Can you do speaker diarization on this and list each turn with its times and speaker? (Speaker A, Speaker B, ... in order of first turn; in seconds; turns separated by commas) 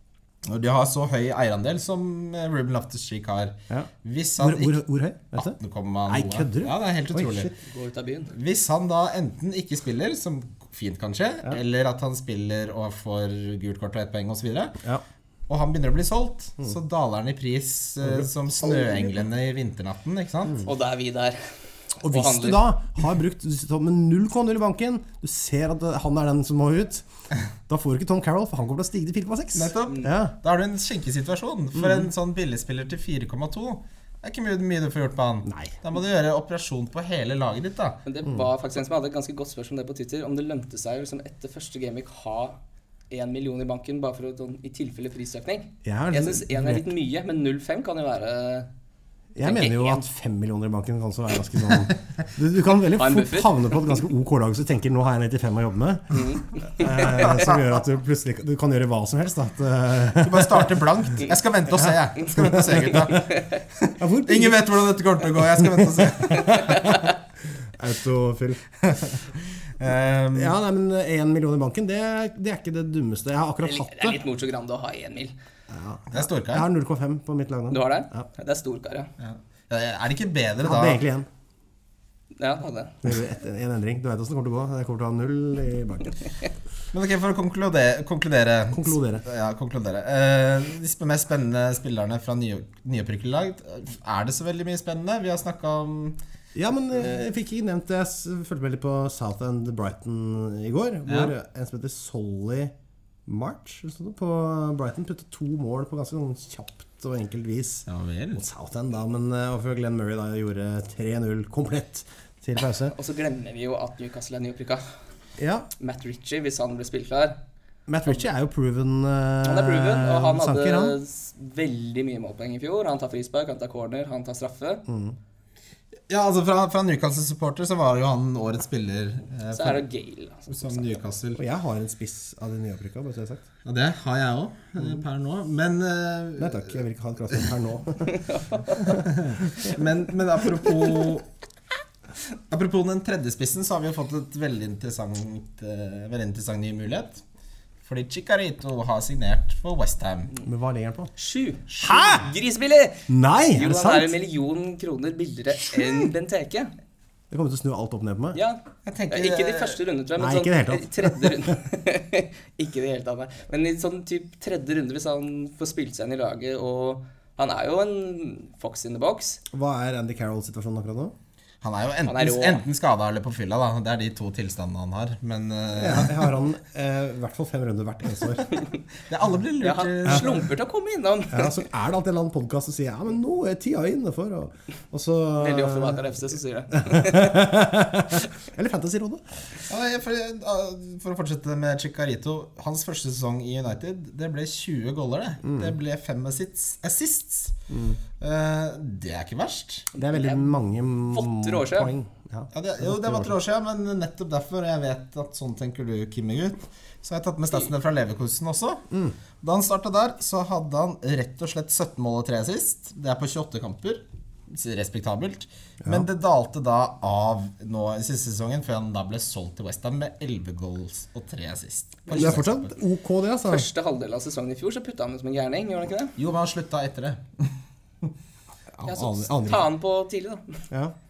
Speaker A: 0.4-4.8, Speaker B: 3.7-7.5, Speaker A: 5.4-7.5, Speaker C: 7.6-8.3, Speaker A: 8.3-14.8, Speaker A: 15.5-20.6, Speaker C: 20.6-21.4, Speaker C: 22.0-22.7, Speaker B: 22.0-27.0, Speaker B: 27.7-30.4, Speaker A: 29.5-38.0, Speaker B: 31.8-32.0, Speaker B: 35.4-35.8, Speaker C: 38.0-42.6, Speaker C: 43.1-48.7, Speaker B: 45.8-46.9, Speaker B: 49.3-60.7, Speaker C: 49.4-50.0, Speaker C: 53.0-53.9, Speaker C: 56.1-57.4, Speaker A: 57.2-57.6, Speaker A: 60.1-66.9, Speaker B: 61.8-63.2, Speaker C: 63.2-63.6, Speaker B: 64.0-64.8, Speaker B: 65.4-69.1, Speaker C: 66.8-67.1, Speaker A: 69.8-70.5, Speaker B: 70.3-74.2, Speaker C: 73.6-75.3, Speaker B: 75.7-78.3, Speaker A: 76.1-76.7, Speaker C: 77.7-79.1, Speaker A: 79.2-81.0, Speaker B: 80.6-81.3, Speaker C: 82.4-83.0, Speaker B: 83.0-86.2, Speaker A: 86.9-96.2, Speaker B: 88.7-89.2, Speaker B: 96.5-102.7, Speaker A: 101.1-101.3, Speaker B: 103.2-112.9, Speaker A: 107.9-108.4, Speaker C: 112.9-114.8, Speaker B: 115.4-115.7, Speaker C: 115.8-117.4, Speaker B: 117.9-121.0, Speaker C: 119.4-124.8, Speaker B: 124.9-125.2, Speaker A: 126.1-129.8, Speaker C: 129.5-131.0, Speaker A: 130.5-131.4, Speaker B: 131.3-133.4, Speaker A: 133.6-136.7, Speaker B: 136.4-138.2, Speaker C: 138.1-139.0, Speaker A: 138.8-141.3, Speaker A: 142.5-147.2, Speaker A: 147.8-150.3, Speaker B: 150.4-151.1, Speaker C: 151.2-156.7, Speaker B: 151.8-152.2, Speaker B: 153.1-154.1, Speaker B: 155.7-156.1, Speaker B: 157.3-158.4, Speaker C: 158.3-169.4, Speaker A: 158.8-159.8, Speaker B: 160.2-161.6, Speaker B: 169.5-171.1, Speaker A: 171.6-176.4, Speaker C: 172.0-172.6, Speaker B: 175.7-178.6, Speaker A: 179.1-180.5, Speaker C: 179.6-181.6, Speaker B: 181.3-186.0, Speaker C: 185.3-187.4, Speaker B: 186.7-189.2, Speaker A: 189.7-197.6, Speaker B: 195.4-195.7, Speaker B: 197.7-198.0, Speaker A: 198.2-199.9, Speaker C: 199.9-200.5, Speaker B: 200.0-203.3, Speaker C: 201.1-201.9, Speaker A: 202.5-208.8, Speaker B: 208.9-209.2, Speaker A: 209.4-222.7, Speaker C: 222.1-222.3, Speaker B: 222.1-223.7, Speaker C: 223.4-226.1, Speaker A: 226.2-227.5, Speaker B: 228.7-229.7, Speaker C: 228.8-230.7